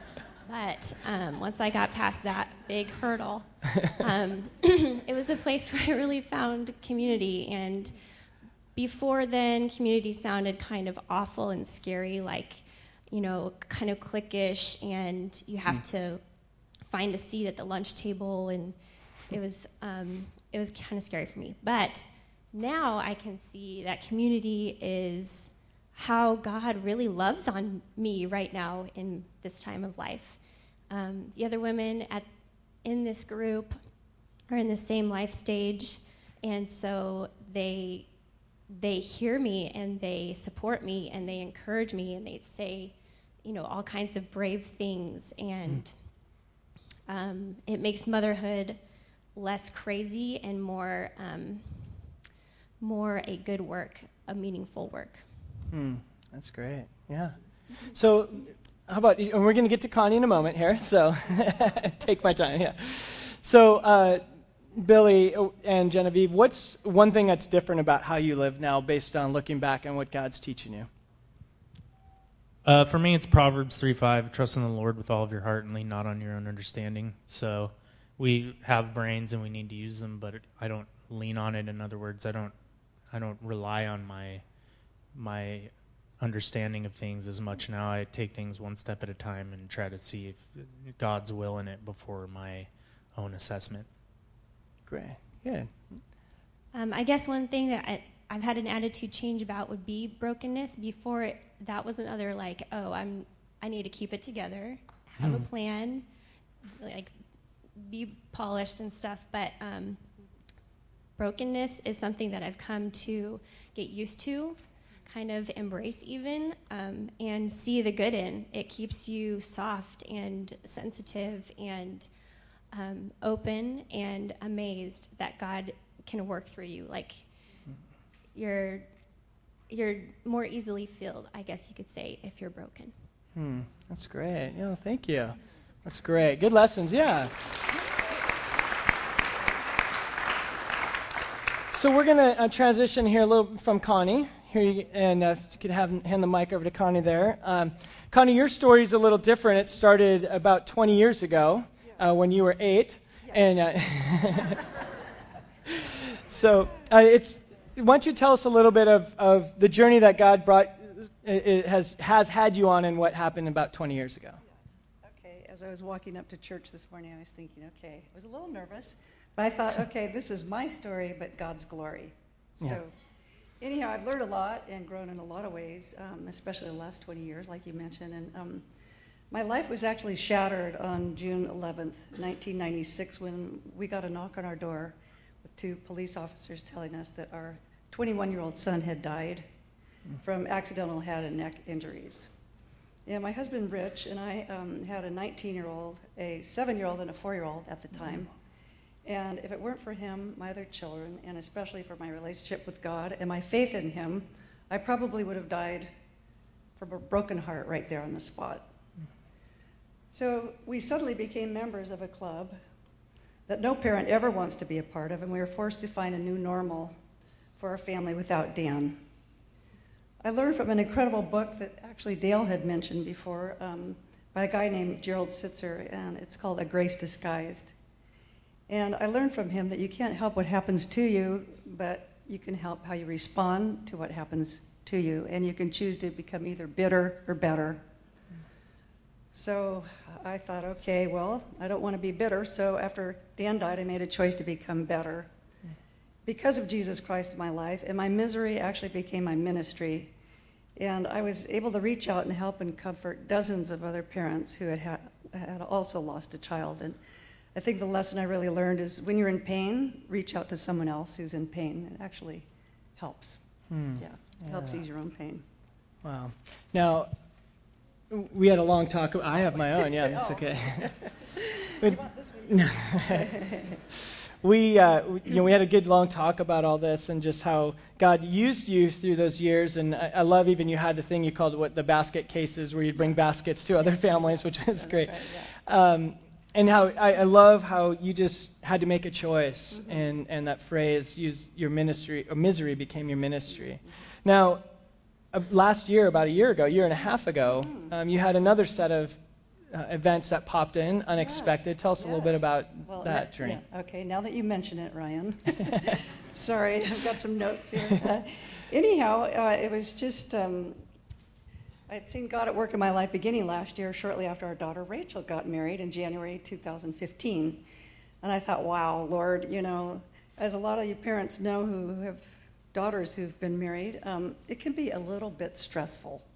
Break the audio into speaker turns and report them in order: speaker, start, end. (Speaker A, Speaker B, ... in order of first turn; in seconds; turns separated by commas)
Speaker A: 0.5-7.9, Speaker A: 8.8-16.2, Speaker A: 16.9-18.8, Speaker A: 19.3-30.4, Speaker A: 30.9-32.3, Speaker A: 32.8-33.8, Speaker A: 34.5-38.1, Speaker A: 38.7-42.9, Speaker A: 43.4-45.9, Speaker A: 47.1-48.8, Speaker A: 49.4-52.1, Speaker A: 52.8-55.2, Speaker B: 55.7-57.4, Speaker B: 57.9-64.2, Speaker B: 64.8-70.9, Speaker C: 72.7-82.5, Speaker C: 83.1-84.4, Speaker C: 85.1-93.9, Speaker B: 94.9-95.7, Speaker A: 96.7-106.0, Speaker A: 106.8-107.1, Speaker A: 107.8-110.0, Speaker A: 111.2-122.1, Speaker A: 122.7-127.2, Speaker A: 128.3-128.9, Speaker A: 129.7-132.9, Speaker B: 133.3-137.3, Speaker B: 141.7-154.7, Speaker B: 155.7-164.4, Speaker D: 165.0-172.9, Speaker D: 173.6-178.7, Speaker D: 179.3-189.4, Speaker D: 190.2-192.3, Speaker D: 193.1-198.3, Speaker D: 199.1-205.9, Speaker D: 206.8-208.7, Speaker D: 210.1-212.6, Speaker D: 213.5-216.9, Speaker D: 217.6-219.0, Speaker D: 220.2-227.7, Speaker D: 228.7-237.8, Speaker D: 239.3-245.3, Speaker D: 246.3-250.1, Speaker D: 250.8-257.0, Speaker D: 257.6-262.5, Speaker D: 263.0-263.4, Speaker B: 263.7-264.7, Speaker D: 264.0-265.4, Speaker B: 266.0-267.1, Speaker B: 268.1-270.9, Speaker D: 270.0-273.8, Speaker B: 271.8-273.4, Speaker B: 274.4-294.6, Speaker D: 284.8-285.5, Speaker B: 295.3-299.2, Speaker B: 299.7-303.6, Speaker D: 301.2-310.8, Speaker D: 311.9-317.6, Speaker D: 318.2-326.2